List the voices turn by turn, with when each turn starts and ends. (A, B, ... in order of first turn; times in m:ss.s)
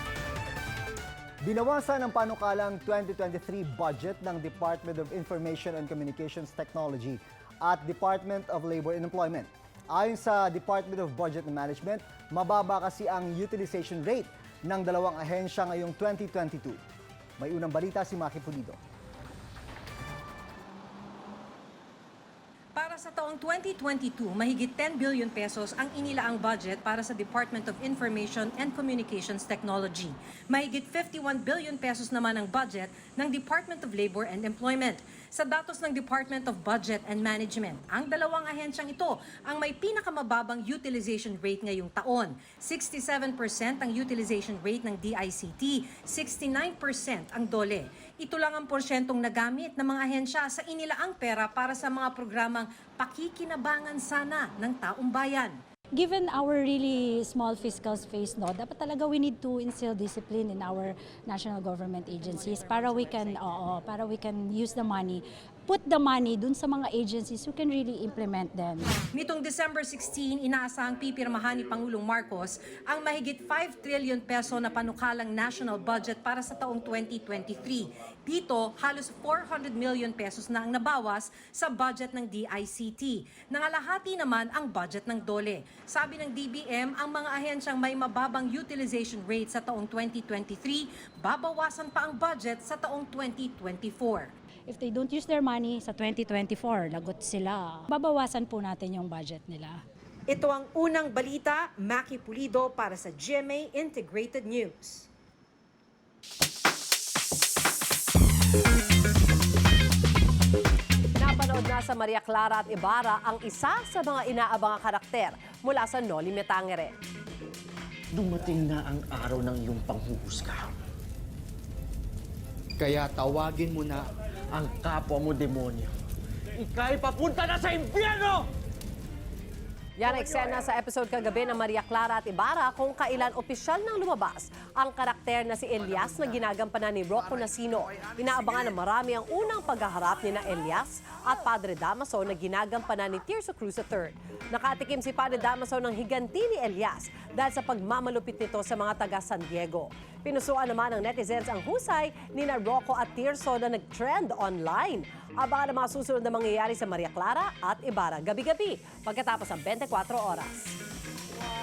0:01.4-0:16.8 A
0:17.4-0:18.8 A
0:22.8-0:55.6 B
0:55.9-1:08.9 C
1:09.1-1:34.3 B
1:34.7-1:39.8 C
1:40.3-1:45.1 B
1:51.2-1:56.9 D
1:58.1-2:00.7 E
2:02.8-2:05.9 E
2:06.6-2:08.4 E
2:10.0-2:40.7 D